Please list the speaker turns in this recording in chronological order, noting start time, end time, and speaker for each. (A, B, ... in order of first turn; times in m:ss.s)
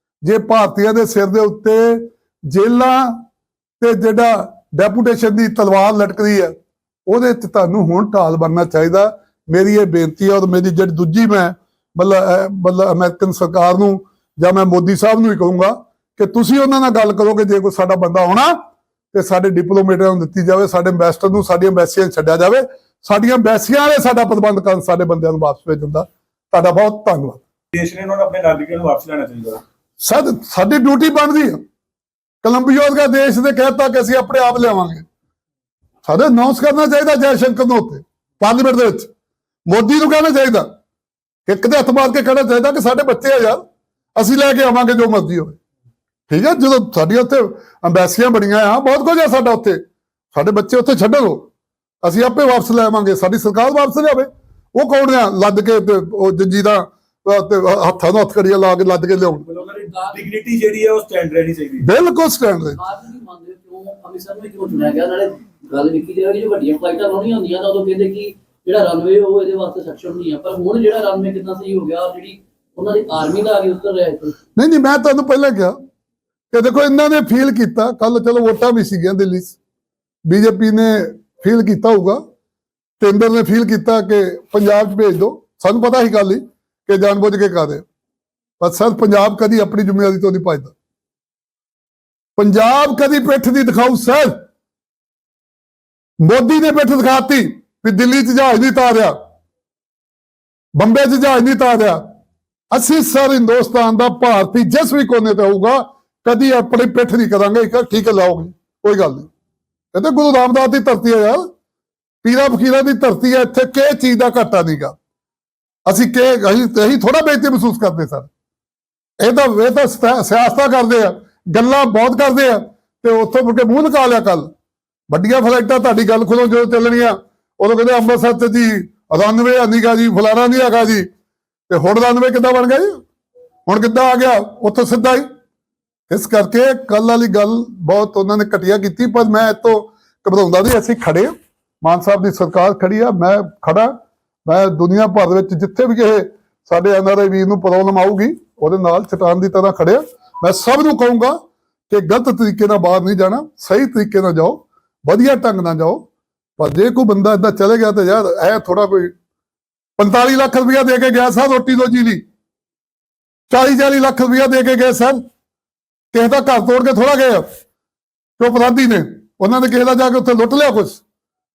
0:00.2-0:03.2 A
0:03.8-0:06.5 A
0:07.1-0:18.5 A
0:19.1-0:27.4 A
0:27.7-0:29.6 B
0:30.0-0:31.6 A
0:32.4-0:35.0 A
0:36.0-0:39.1 A
0:39.7-0:40.7 A
0:41.5-0:43.6 A
0:44.2-0:45.6 A
0:46.3-0:49.8 A
0:50.3-0:51.5 A
0:52.0-0:59.4 A
0:59.5-1:01.9 B
1:01.8-1:02.8 A
1:02.8-1:14.3 C
1:14.6-1:15.7 A
1:16.5-1:19.6 A
1:20.2-1:22.2 A
1:23.0-1:27.8 A
1:28.6-1:30.7 A
1:32.4-1:34.3 A
1:36.2-1:39.1 A
1:40.7-1:42.0 A
1:42.7-1:49.3 A
1:49.9-1:51.5 A
1:52.2-1:54.9 A
1:55.8-1:58.3 A
1:59.2-2:04.5 A
2:05.1-2:11.0 A
2:11.7-2:13.0 A
2:13.7-2:15.2 A
2:16.1-2:23.9 A
2:24.4-2:31.4 A
2:31.9-2:36.1 A
2:36.6-2:39.1 A
2:40.0-2:42.2 A
2:43.5-2:45.2 A
2:46.1-2:47.4 A
2:48.4-2:51.0 A